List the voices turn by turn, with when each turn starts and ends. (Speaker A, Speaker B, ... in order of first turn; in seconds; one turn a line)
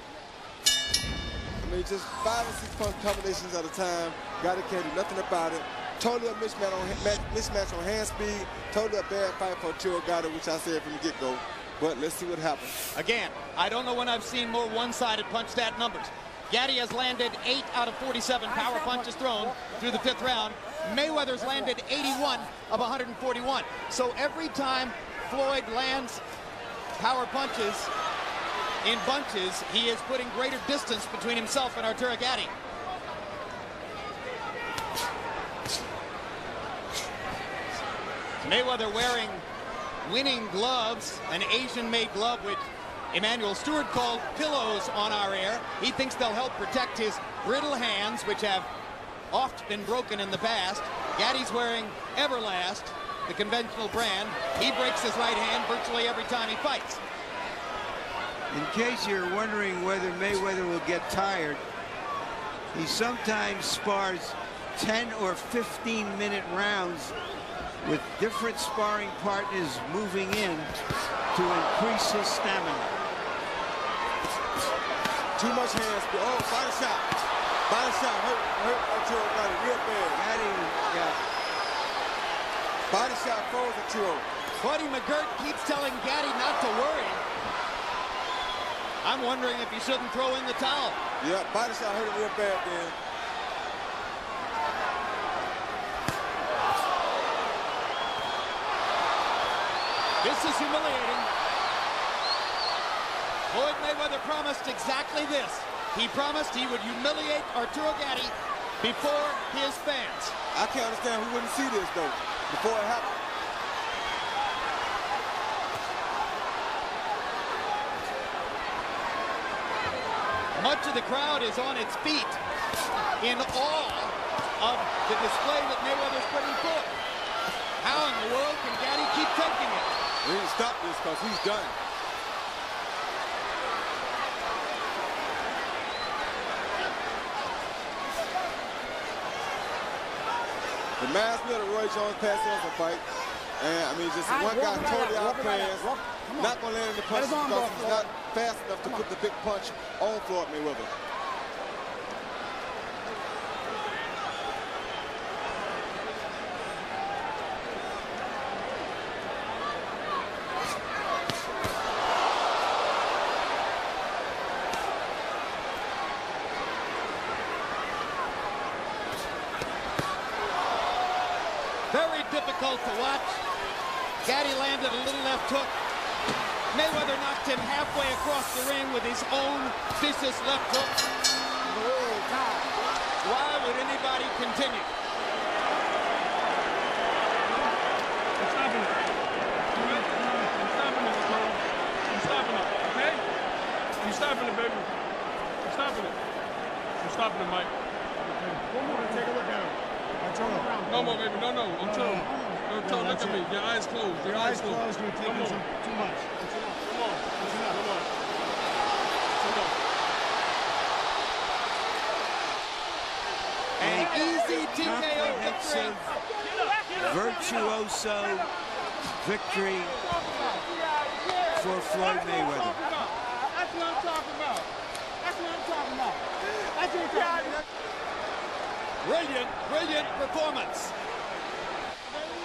Speaker A: 1.6-12.8
Speaker B: 12.9-26.2
Speaker C: 18.4-22.5
Speaker B: 26.9-27.9
Speaker B: 28.8-32.5
Speaker B: 38.4-39.4
Speaker B: 40.0-48.7
Speaker B: 49.3-57.0
Speaker D: 58.5-61.6
Speaker D: 62.7-67.2
Speaker D: 67.8-70.7
Speaker D: 71.3-73.0
Speaker A: 75.3-80.2
Speaker D: 80.1-81.2
Speaker A: 82.9-84.3
Speaker B: 84.6-87.2
Speaker B: 89.0-91.0
Speaker A: 91.2-93.0
Speaker B: 100.2-101.3
Speaker B: 103.5-110.3
Speaker A: 110.5-113.2
Speaker B: 120.5-122.4
Speaker B: 123.2-126.9
Speaker B: 127.8-129.9
Speaker A: 130.2-131.8
Speaker A: 141.0-143.0
Speaker A: 143.6-150.9
Speaker C: 144.2-146.6
Speaker C: 147.1-148.1
Speaker B: 171.9-173.4
Speaker B: 174.2-175.8
Speaker B: 176.7-181.0
Speaker C: 181.6-182.7
Speaker B: 183.2-184.9
Speaker E: 188.4-188.9
Speaker E: 189.7-193.2
Speaker E: 194.0-194.9
Speaker E: 195.6-196.2
Speaker E: 197.0-197.7
Speaker C: 198.7-201.1
Speaker E: 200.8-205.7
Speaker C: 205.8-206.2
Speaker E: 206.6-208.1
Speaker E: 209.4-209.8
Speaker B: 213.8-216.1
Speaker D: 213.8-216.1
Speaker D: 217.0-218.5
Speaker D: 219.2-220.1
Speaker C: 220.1-221.6
Speaker D: 221.5-222.8
Speaker C: 223.5-224.7
Speaker C: 225.2-226.2
Speaker C: 226.7-227.6
Speaker B: 229.0-230.9